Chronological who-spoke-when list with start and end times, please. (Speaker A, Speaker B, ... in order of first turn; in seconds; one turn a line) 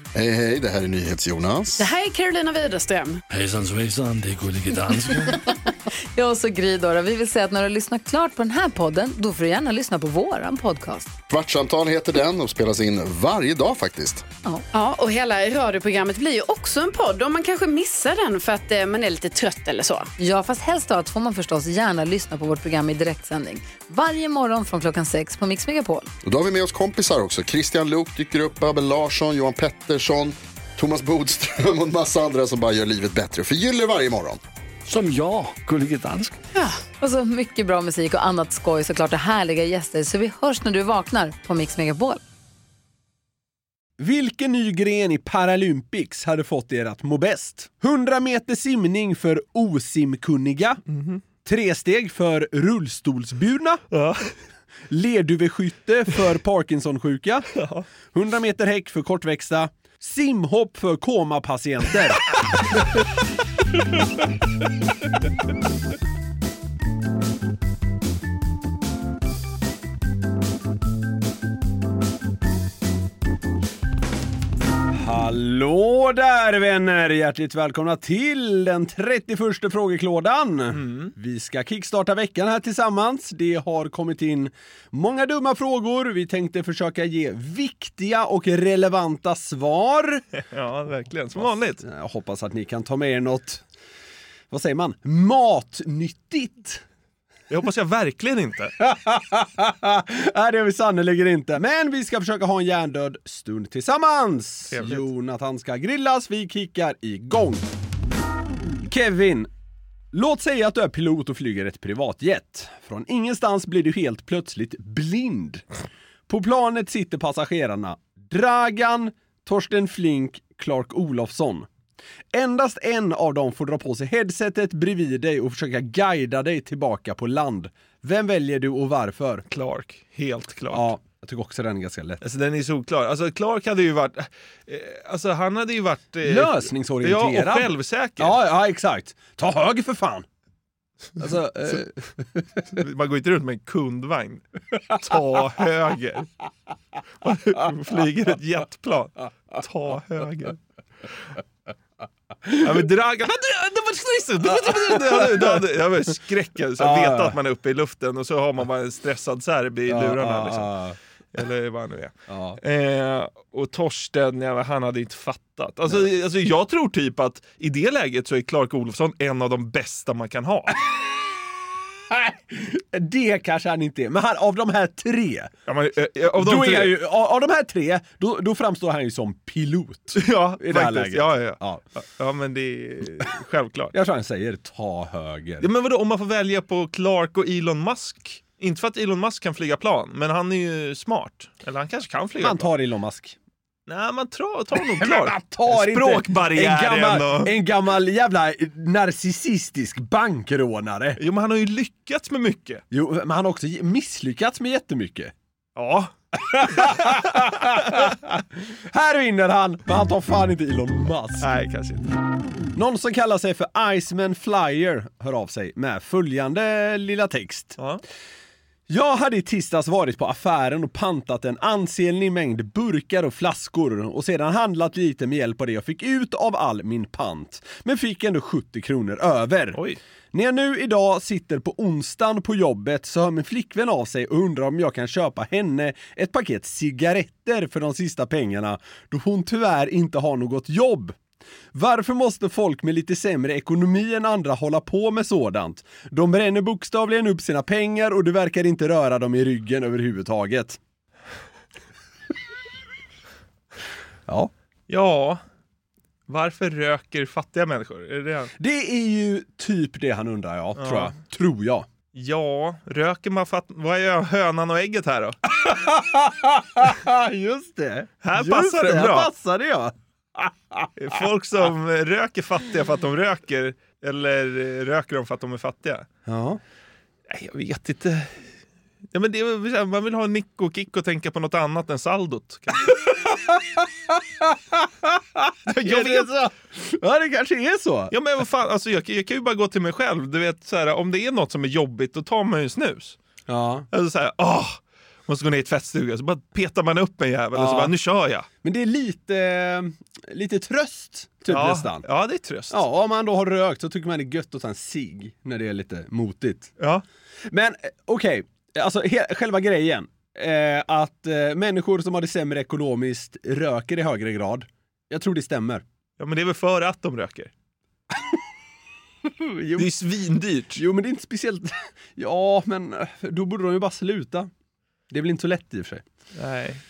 Speaker A: 0.1-1.9
Speaker B: 1.8-3.2
Speaker C: 3.3-5.4
Speaker D: 6.1-11.1
Speaker A: 11.3-14.2
Speaker B: 14.7-20.1
Speaker D: 20.2-26.1
Speaker A: 26.2-34.4
Speaker C: 34.9-36.4
Speaker D: 36.6-42.2
Speaker E: 44.0-50.8
Speaker F: 50.9-51.2
Speaker E: 51.4-53.8
Speaker F: 53.9-54.3
Speaker E: 54.9-57.5
Speaker F: 57.5-57.8
Speaker E: 58.1-62.3
Speaker E: 74.9-90.2
Speaker F: 80.7-81.1
Speaker F: 90.4-91.8
Speaker E: 91.4-93.6
Speaker E: 94.5-96.8
Speaker F: 97.5-98.8
Speaker E: 98.8-107.7
Speaker F: 104.7-105.0
Speaker E: 108.9-109.5
Speaker E: 110.1-115.6
Speaker E: 116.3-121.7
Speaker E: 122.3-129.4
Speaker F: 129.5-130.9
Speaker E: 130.7-132.2
Speaker F: 132.2-138.4
Speaker E: 136.2-140.2
Speaker E: 141.2-142.8
Speaker F: 142.7-146.3
Speaker F: 147.2-150.6
Speaker F: 152.5-160.7
Speaker E: 154.4-155.6
Speaker E: 156.8-157.3
Speaker E: 159.9-161.0
Speaker F: 161.3-170.8
Speaker E: 162.3-162.6
Speaker E: 172.1-175.5
Speaker F: 175.7-177.0
Speaker E: 176.3-181.8
Speaker F: 180.1-183.9
Speaker E: 183.9-185.7
Speaker F: 185.6-192.7
Speaker E: 192.4-193.4
Speaker F: 193.9-197.6
Speaker E: 194.7-201.2
Speaker F: 201.2-202.8
Speaker E: 202.9-205.3
Speaker F: 205.8-207.9
Speaker E: 206.3-211.5
Speaker F: 211.4-212.1
Speaker E: 212.8-217.8
Speaker E: 218.9-229.8
Speaker F: 229.7-230.0
Speaker E: 230.3-241.2
Speaker E: 241.7-250.8
Speaker F: 254.9-255.4
Speaker F: 256.3-258.5
Speaker E: 258.6-261.9
Speaker F: 260.8-261.1
Speaker F: 262.1-265.4
Speaker E: 265.5-271.2
Speaker F: 268.2-269.3
Speaker F: 271.0-276.1
Speaker E: 276.3-276.6
Speaker F: 277.3-278.5
Speaker F: 279.1-282.9
Speaker E: 282.9-288.1
Speaker F: 285.7-286.3
Speaker F: 288.1-293.2
Speaker E: 293.5-293.9
Speaker F: 293.9-298.5
Speaker E: 297.5-297.9
Speaker E: 298.6-302.0
Speaker F: 301.5-302.8
Speaker E: 302.7-306.8
Speaker E: 307.5-315.8
Speaker F: 316.2-317.5
Speaker E: 318.1-318.4
Speaker E: 319.2-319.9
Speaker F: 319.8-320.8
Speaker E: 320.8-324.5
Speaker E: 325.1-326.0
Speaker F: 326.3-326.8